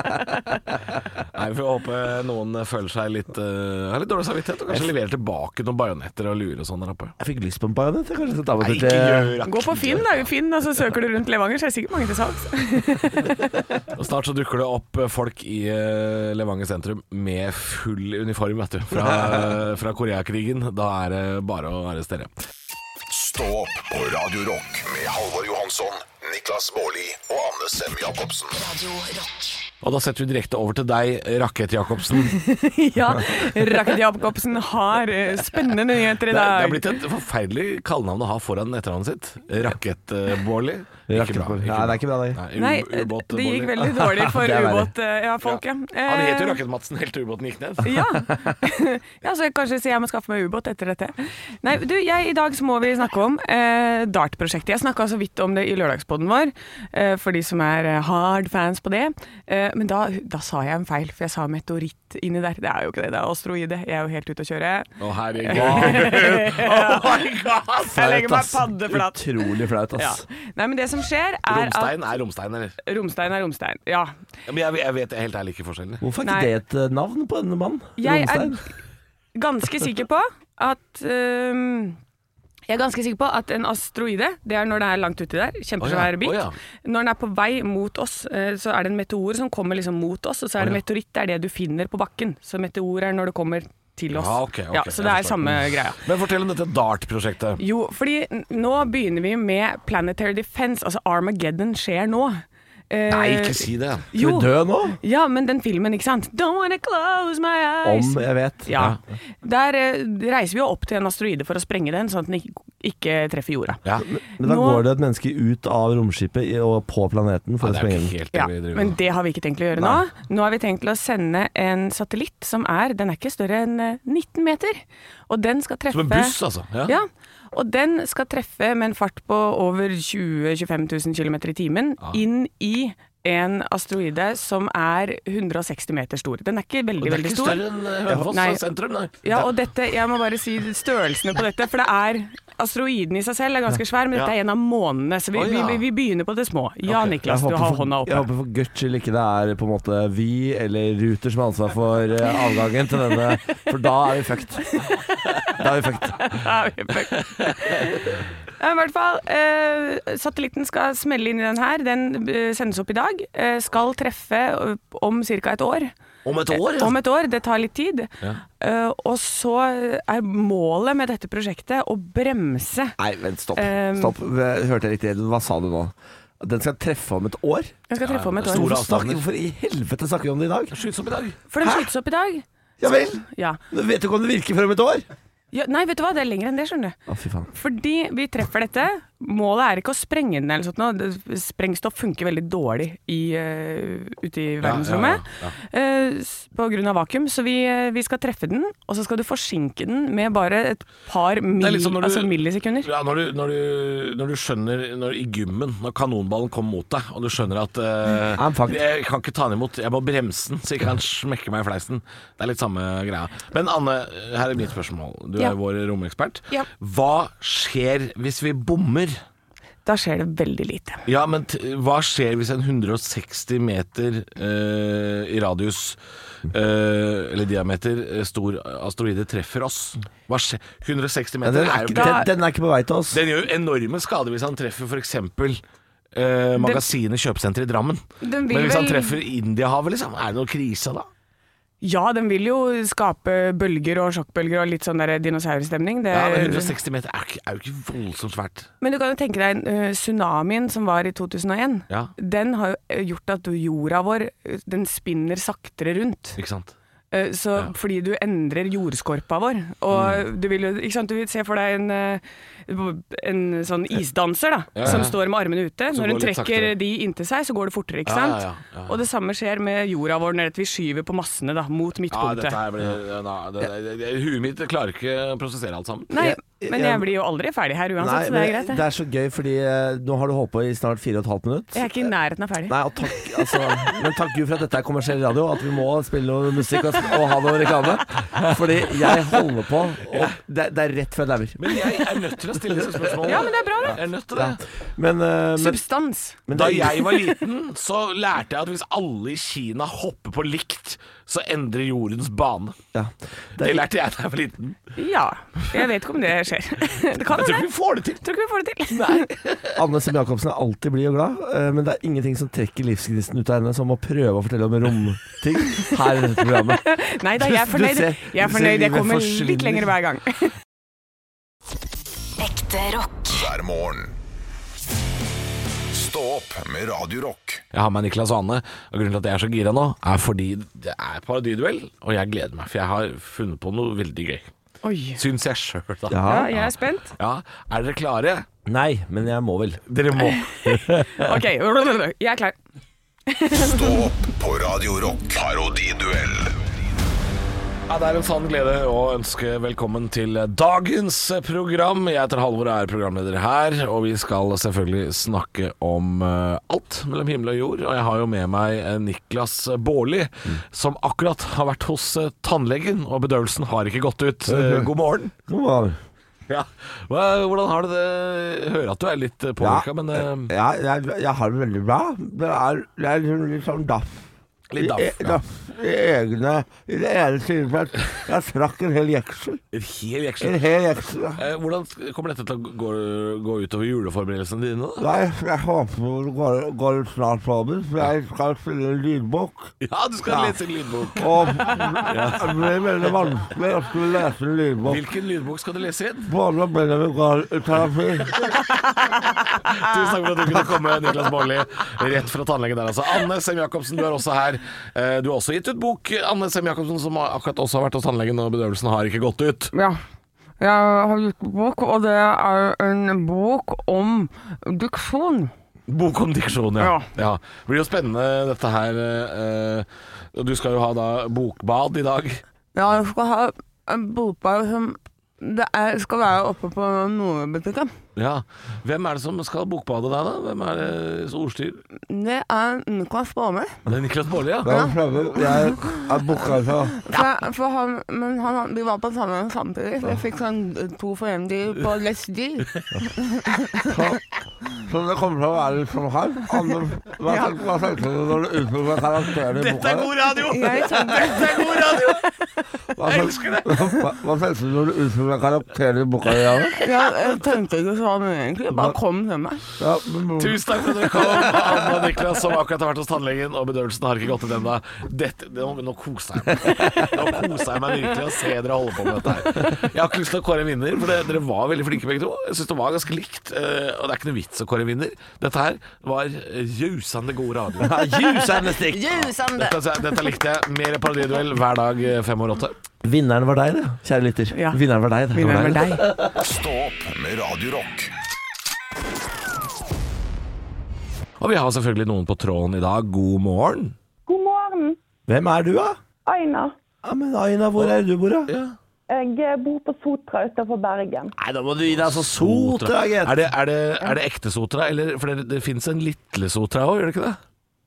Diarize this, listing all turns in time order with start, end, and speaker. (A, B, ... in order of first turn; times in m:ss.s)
0:01.2-0:07.1 A
0:07.2-0:09.3 B
0:08.6-0:10.3 A
0:09.4-0:13.4 C
0:13.9-0:22.3 A
0:23.1-0:28.6 D
0:28.5-0:29.6 E
0:29.8-0:32.4 A
0:32.3-0:36.8 C
0:36.3-0:44.0 A
0:41.1-0:42.4 B
0:42.5-0:46.6 C
0:44.1-0:44.9 B
0:45.4-0:48.0 A
0:47.8-1:07.2 C
1:05.0-1:08.1 A
1:05.5-1:06.2 B
1:07.9-1:11.9 C
1:08.0-1:10.2 B
1:11.5-1:12.8 A
1:12.8-1:14.2 C
1:14.5-1:16.0 A
1:16.0-1:18.6 B
1:16.2-1:16.5 C
1:18.0-1:18.6 C
1:19.3-1:22.0 C
1:22.7-1:36.0 C
1:25.8-1:26.5 A
1:34.1-1:37.6 A
1:37.6-1:53.8 C
1:43.1-1:44.1 A
1:44.1-1:45.0 B
1:47.8-1:48.8 B
1:54.0-1:58.1 B
1:54.4-1:54.8 C
1:57.6-1:59.0 A
1:58.3-2:17.6 C
2:05.9-2:07.0 A
2:17.0-2:19.5 A
2:18.3-2:18.6 C
2:19.2-2:28.2 C
2:25.3-2:25.8 A
2:26.9-2:27.2 A
2:27.2-2:34.7 B
2:34.7-2:35.5 C
2:35.5-2:36.2 B
2:36.2-2:45.9 C
2:46.2-2:46.9 A
2:46.5-2:53.0 C
2:53.0-2:57.7 B
2:53.6-2:54.1 C
2:57.9-2:58.8 C
2:58.0-2:59.2 A
2:58.4-3:00.8 B
3:00.7-3:01.4 A
3:01.5-3:03.6 C
3:01.6-3:01.9 B
3:02.8-3:05.0 B
3:05.5-3:07.0 C
3:07.1-3:07.5 B
3:07.5-3:22.9 C
3:14.6-3:15.6 A
3:21.6-3:39.2 A
3:28.3-3:28.8 B
3:39.8-3:41.0 C
3:41.0-3:52.2 A
3:51.4-3:53.2 B
3:51.9-3:52.3 C
3:53.1-3:55.6 A
3:56.1-4:01.1 A
3:56.6-3:56.9 C
3:58.2-3:59.2 C
4:01.8-4:06.7 C
4:06.1-4:08.7 A
4:08.8-4:16.4 C
4:16.4-4:16.7 A
4:17.1-4:32.6 C
4:19.9-4:20.2 A
4:24.8-4:25.2 A
4:25.9-4:26.7 A
4:28.0-4:29.0 A
4:32.1-4:36.1 A
4:36.1-4:38.8 C
4:36.2-4:37.1 B
4:38.0-4:42.0 B
4:41.7-4:42.8 C
4:42.7-4:51.9 B
4:50.1-4:50.4 A
4:51.6-4:54.6 A
4:52.8-4:53.0 B
4:53.2-4:54.0 C
4:54.3-4:55.8 B
4:55.6-4:57.2 C
4:56.5-4:57.1 B
4:56.5-5:02.8 A
5:02.9-5:03.9 B
5:03.6-5:04.8 A
5:05.0-5:07.7 C
5:07.3-5:08.2 A
5:08.2-5:09.3 C
5:08.9-5:09.8 A
5:09.7-5:16.8 B
5:16.5-5:20.5 C
5:17.4-5:19.9 B
5:22.4-5:23.5 E
5:23.3-5:24.1 D
5:25.9-5:27.6 D
5:27.7-5:34.5 A
5:34.8-5:35.2 C
5:35.2-5:38.4 A
5:36.1-5:36.5 B
5:36.2-5:37.1 C
5:38.6-5:39.8 B
5:39.9-5:41.1 A
5:40.2-5:42.6 C
5:43.3-5:44.0 C
5:43.5-5:46.5 D
5:47.9-6:05.3 A
6:04.5-6:04.9 B
6:05.5-6:06.0 B
6:06.5-6:10.5 A
6:09.6-6:19.6 B
6:14.7-6:15.4 A
6:19.7-6:20.6 A
6:20.4-6:21.4 B
6:21.4-6:25.1 A
6:25.0-6:29.7 B
6:29.8-6:32.5 A
6:30.2-6:30.6 B
6:31.1-6:35.0 B
6:34.8-6:36.3 A
6:36.2-6:38.4 B
6:38.3-6:49.7 A
6:49.7-6:50.0 C
6:50.6-6:55.5 C
6:55.9-7:02.4 A
6:56.8-6:57.1 C
7:02.7-7:07.9 C
7:08.2-7:11.8 A
7:12.0-7:13.8 C
7:13.9-7:14.8 A
7:14.6-7:17.0 B
7:14.7-7:16.0 C
7:17.0-7:24.0 C
7:23.8-7:24.2 B
7:24.8-7:30.1 B
7:27.3-7:27.6 C
7:29.4-7:32.2 A
7:30.5-7:32.4 C
7:32.9-7:36.8 B
7:33.0-7:34.0 A
7:36.3-7:36.8 A
7:36.8-7:39.6 C
7:39.8-7:42.0 B
7:40.4-7:58.4 A
7:46.6-7:47.0 B
7:57.8-7:59.2 B
7:58.8-8:00.3 C
7:59.6-8:02.8 A
8:03.0-8:06.3 B
8:04.5-8:04.8 C
8:05.3-8:06.0 C
8:06.3-8:08.1 D
8:11.4-8:13.9 A
8:14.3-8:15.0 F
8:15.3-8:16.0 B
8:16.2-8:16.8 F
8:17.0-8:18.5 B
8:18.5-8:18.8 A
8:19.1-8:21.3 F
8:21.4-8:23.4 B
8:21.9-8:27.4 A